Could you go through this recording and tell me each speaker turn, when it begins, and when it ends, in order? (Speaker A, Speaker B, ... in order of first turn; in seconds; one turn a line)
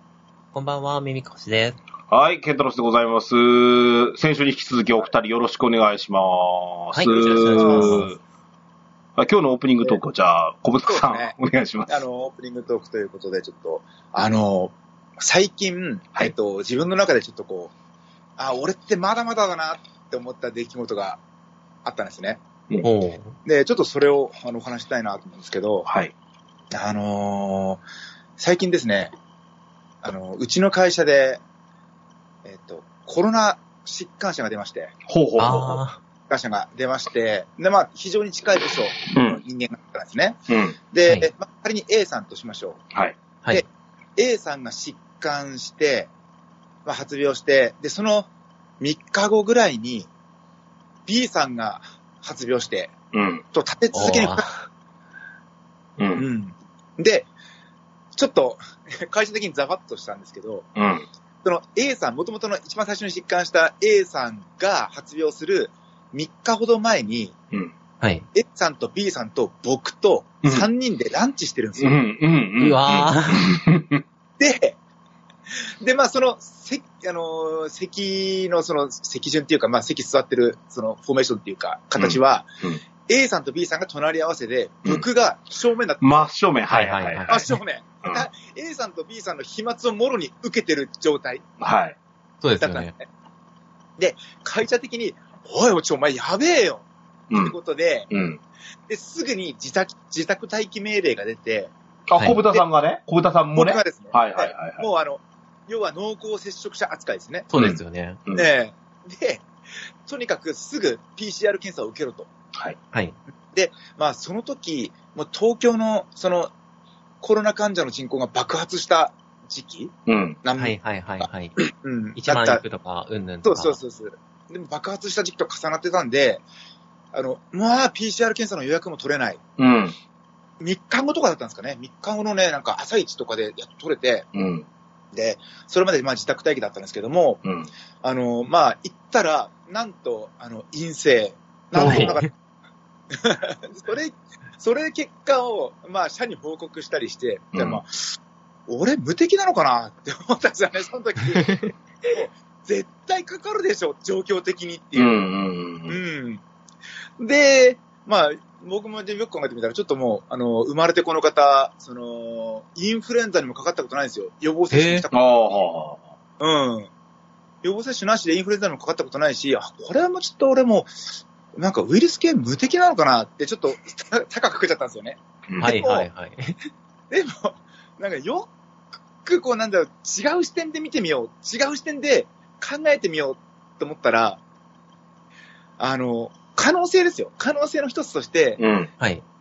Speaker A: 0.5-1.8
Speaker B: 2.1-8.2
Speaker A: 6.9-8.1
Speaker C: 7.6-8.1
Speaker B: 9.2-12.0
Speaker C: 10.9-11.3
Speaker C: 11.9-17.7
Speaker C: 18.4-21.2
Speaker C: 21.9-22.4
Speaker A: 22.8-23.3
Speaker C: 23.4-25.9
Speaker B: 25.9-26.1
Speaker C: 26.7-27.8
Speaker C: 28.4-29.1
Speaker C: 30.0-31.4
Speaker C: 32.5-34.9
Speaker B: 35.1-35.8
Speaker A: 35.4-36.0
Speaker C: 36.3-40.4
Speaker B: 39.1-39.4
Speaker B: 40.5-40.8
Speaker C: 40.9-42.8
Speaker C: 44.2-46.1
Speaker C: 46.9-48.3
Speaker C: 48.8-50.1
Speaker C: 51.1-52.9
Speaker B: 53.1-53.4
Speaker C: 53.5-54.5
Speaker A: 53.9-54.6
Speaker B: 56.0-56.2
Speaker C: 56.2-57.3
Speaker C: 58.1-60.7
Speaker B: 60.8-61.1
Speaker C: 61.4-67.3
Speaker C: 68.3-72.0
Speaker B: 71.8-74.0
Speaker A: 72.6-73.5
Speaker C: 74.4-74.8
Speaker C: 75.8-82.5
Speaker B: 82.0-82.8
Speaker C: 83.1-86.3
Speaker B: 86.0-87.4
Speaker A: 86.7-87.5
Speaker C: 87.3-91.4
Speaker B: 91.6-92.0
Speaker A: 92.4-92.9
Speaker C: 92.6-93.1
Speaker C: 94.0-98.1
Speaker B: 97.3-97.5
Speaker B: 98.1-98.4
Speaker C: 98.9-101.7
Speaker B: 102.1-104.9
Speaker C: 103.5-107.5
Speaker A: 107.5-108.2
Speaker B: 107.5-108.5
Speaker C: 108.3-109.5
Speaker C: 110.0-112.3
Speaker C: 113.5-116.5
Speaker C: 117.2-119.9
Speaker B: 120.1-120.4
Speaker C: 120.4-122.6
Speaker A: 120.6-121.6
Speaker A: 122.2-123.8
Speaker C: 123.4-126.4
Speaker C: 127.1-129.4
Speaker B: 129.6-129.9
Speaker C: 130.6-134.3
Speaker B: 134.3-134.7
Speaker C: 135.1-137.4
Speaker B: 137.4-137.7
Speaker C: 138.0-142.3
Speaker B: 141.8-142.1
Speaker A: 141.8-142.3
Speaker C: 143.1-155.2
Speaker B: 147.5-147.8
Speaker A: 151.4-151.7
Speaker B: 154.9-156.0
Speaker C: 155.9-156.4
Speaker C: 157.2-165.6
Speaker A: 164.7-165.0
Speaker B: 165.1-166.1
Speaker C: 166.4-166.9
Speaker C: 167.6-170.9
Speaker C: 171.6-176.1
Speaker A: 175.6-176.6
Speaker C: 177.1-178.5
Speaker C: 179.2-184.4
Speaker C: 185.8-188.6
Speaker B: 188.6-188.9